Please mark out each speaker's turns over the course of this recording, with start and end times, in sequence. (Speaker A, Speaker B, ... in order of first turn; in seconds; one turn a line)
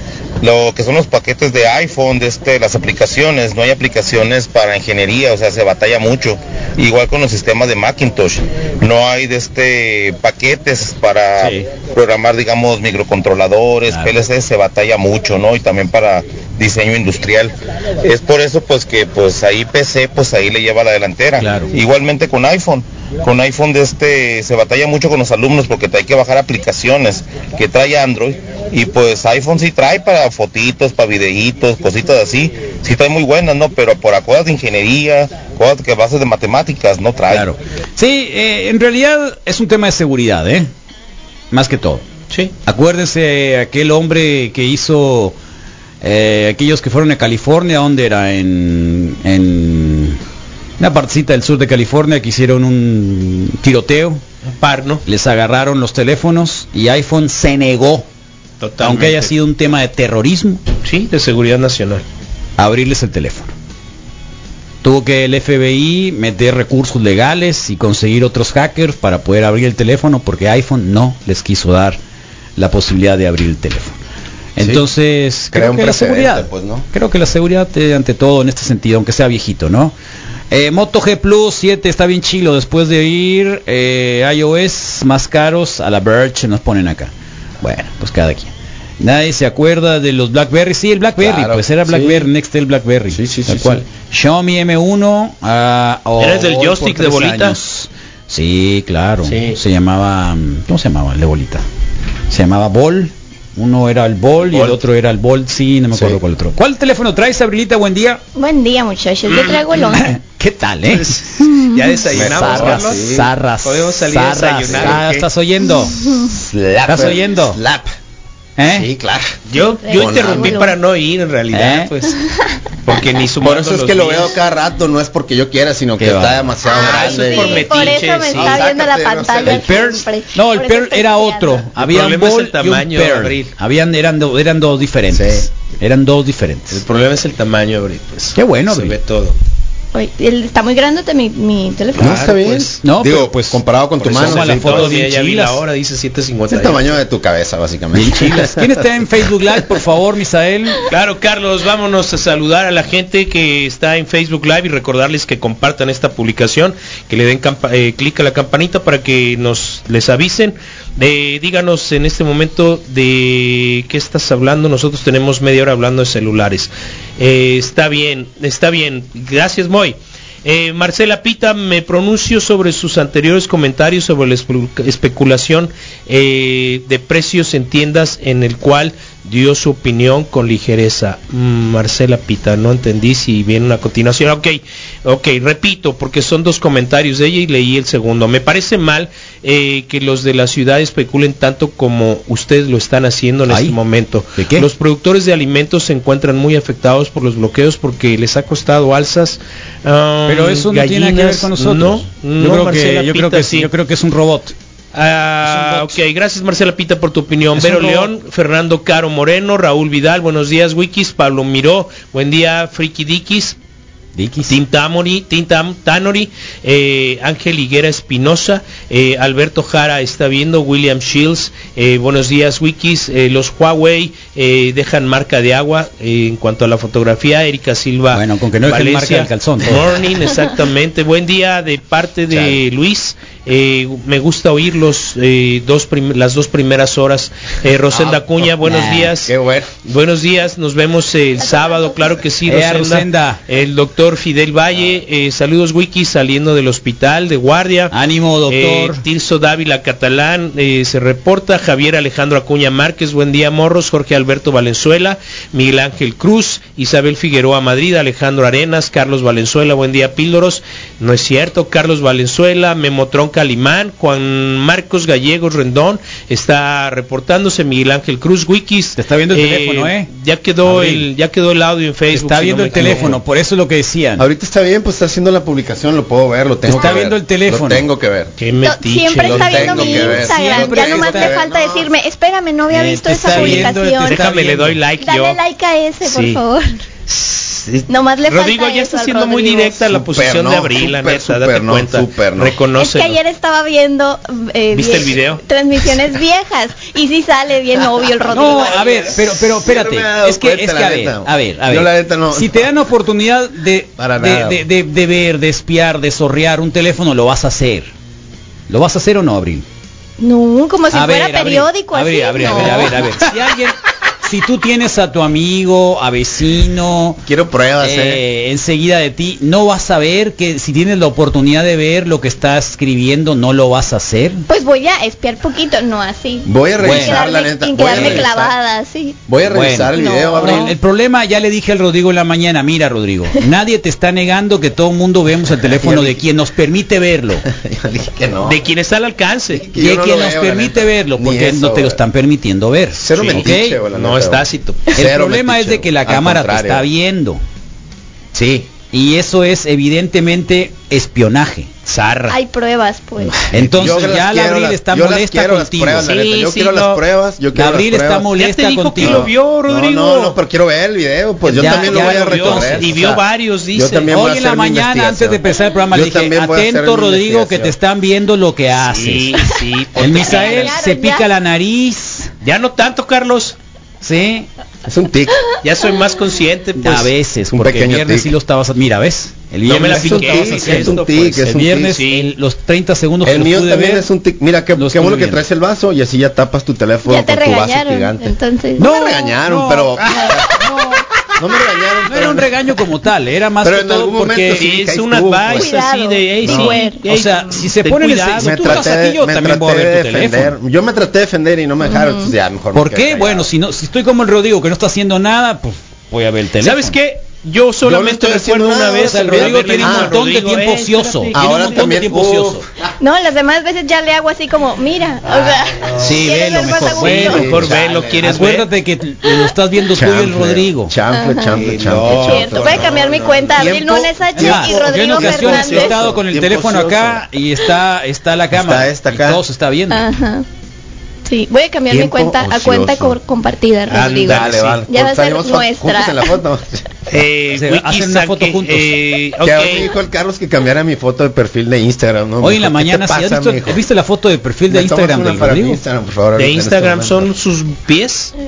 Speaker A: 0.4-37.5
Speaker B: 11.4-11.6
Speaker B: 13.9-14.2
Speaker C: 21.4-21.7
Speaker B: 21.4-21.7
Speaker B: 37.3-40.7
Speaker B: 41.5-42.0
Speaker B: 42.6-45.4
Speaker B: 46.0-50.2
Speaker B: 50.8-54.2
Speaker C: 54.5-55.0
Speaker B: 55.0-58.1
Speaker C: 58.6-59.3
Speaker B: 58.8-60.6
Speaker C: 60.8-62.0
Speaker B: 62.6-63.5
Speaker B: 64.8-72.0
Speaker B: 72.6-74.0
Speaker B: 74.6-79.9
Speaker D: 74.6-74.9
Speaker D: 75.5-76.9
Speaker B: 80.5-87.1
Speaker B: 87.6-101.6
Speaker D: 91.2-92.3
Speaker D: 93.1-93.8
Speaker C: 96.2-97.6
Speaker D: 99.2-99.6
Speaker B: 102.3-108.2
Speaker D: 104.4-104.8
Speaker D: 105.9-106.2
Speaker E: 108.3-110.2
Speaker B: 109.8-111.5
Speaker C: 110.9-113.0
Speaker E: 111.4-112.0
Speaker B: 112.1-116.0
Speaker D: 112.1-113.3
Speaker C: 113.6-115.0
Speaker D: 114.7-115.3
Speaker D: 116.3-117.9
Speaker B: 116.9-117.6
Speaker B: 118.6-118.9
Speaker D: 118.6-119.4
Speaker C: 119.5-122.2
Speaker E: 119.8-120.8
Speaker D: 120.0-120.6
Speaker B: 121.5-121.9
Speaker C: 122.9-124.4
Speaker D: 123.4-129.9
Speaker B: 126.0-127.5
Speaker E: 126.7-131.7
Speaker C: 126.7-128.7
Speaker B: 129.4-136.8
Speaker C: 131.8-133.5
Speaker D: 135.1-135.5
Speaker C: 136.7-139.4
Speaker B: 138.3-139.0
Speaker E: 139.9-142.3
Speaker D: 142.0-145.0
Speaker C: 142.0-142.6
Speaker B: 142.8-145.6
Speaker C: 144.1-147.0
Speaker D: 146.5-148.7
Speaker B: 147.9-150.8
Speaker C: 150.9-203.7
Speaker B: 193.5-193.8
Speaker B: 194.4-194.7
Speaker B: 200.3-204.5
Speaker C: 204.9-213.6
Speaker B: 205.4-206.0
Speaker B: 207.6-208.1
Speaker B: 214.2-214.6
Speaker C: 214.5-247.9
Speaker B: 228.1-229.9
Speaker B: 237.9-239.3
Speaker D: 239.2-239.7
Speaker E: 241.4-242.2
Speaker B: 242.4-243.4
Speaker B: 247.9-249.0
Speaker C: 248.5-273.2
Speaker B: 269.0-270.1
Speaker B: 270.6-271.1
Speaker B: 272.1-274.2
Speaker D: 272.8-273.2
Speaker D: 274.2-278.3
Speaker B: 276.7-277.9
Speaker C: 278.4-280.3
Speaker E: 278.6-284.3
Speaker D: 279.2-281.8
Speaker B: 279.8-281.5
Speaker B: 282.7-284.8
Speaker C: 283.3-285.4
Speaker E: 285.0-286.9
Speaker C: 286.0-286.4
Speaker B: 287.2-287.9
Speaker E: 287.9-289.8
Speaker C: 288.3-293.2
Speaker D: 289.9-292.6
Speaker E: 292.7-299.2
Speaker C: 294.7-295.4
Speaker B: 298.3-307.9
Speaker D: 298.4-302.7
Speaker D: 304.0-304.6
Speaker B: 308.7-309.6
Speaker E: 310.2-313.1
Speaker B: 310.9-317.2
Speaker D: 317.3-318.2
Speaker B: 317.8-324.4
Speaker E: 324.5-329.2
Speaker D: 326.4-328.6
Speaker B: 326.8-327.2
Speaker B: 327.9-328.3
Speaker D: 329.3-330.7
Speaker B: 329.5-337.4
Speaker E: 329.9-330.7
Speaker D: 335.5-336.2
Speaker D: 337.5-338.6
Speaker C: 338.4-339.7
Speaker D: 339.5-342.0
Speaker B: 339.8-343.8
Speaker D: 343.0-346.9
Speaker C: 343.3-344.9
Speaker B: 344.9-347.4
Speaker D: 348.4-348.7
Speaker B: 348.9-352.4
Speaker E: 352.3-353.5
Speaker B: 353.4-356.1
Speaker D: 353.4-358.3
Speaker C: 356.0-357.0
Speaker B: 357.6-359.3
Speaker C: 358.3-360.4
Speaker D: 359.0-363.2
Speaker B: 361.5-363.1
Speaker C: 361.6-364.1
Speaker D: 363.7-367.8
Speaker B: 364.1-372.3
Speaker C: 368.8-370.8
Speaker E: 370.0-371.3
Speaker C: 372.4-373.6
Speaker B: 374.0-374.5
Speaker D: 374.9-375.3
Speaker C: 375.6-377.1
Speaker B: 376.8-384.1
Speaker D: 377.5-378.3
Speaker C: 379.6-382.3
Speaker D: 379.7-382.0
Speaker D: 383.2-390.6
Speaker B: 384.8-385.4
Speaker E: 387.1-389.4
Speaker B: 388.8-391.0
Speaker D: 391.4-392.5
Speaker B: 392.1-394.7
Speaker D: 393.6-395.7
Speaker C: 394.6-398.9
Speaker E: 395.5-397.1
Speaker D: 396.4-396.8
Speaker B: 397.1-400.6
Speaker D: 398.3-403.5
Speaker E: 401.8-402.3
Speaker B: 402.7-407.0
Speaker C: 406.6-411.7
Speaker D: 407.8-410.1
Speaker B: 409.0-412.6
Speaker D: 411.3-412.6
Speaker E: 413.0-417.5
Speaker D: 415.3-416.2
Speaker B: 415.9-420.9
Speaker D: 417.1-418.5
Speaker C: 417.3-418.7
Speaker D: 420.0-427.2
Speaker E: 421.1-426.1
Speaker C: 421.5-423.8
Speaker B: 424.3-430.0
Speaker D: 428.5-429.4
Speaker E: 429.9-430.4
Speaker E: 431.3-436.4
Speaker D: 431.9-433.2
Speaker C: 433.9-434.8
Speaker D: 434.2-436.8
Speaker C: 437.1-439.9
Speaker B: 437.5-438.9
Speaker D: 439.4-443.8
Speaker B: 442.4-445.8
Speaker D: 444.7-447.3
Speaker C: 446.4-448.3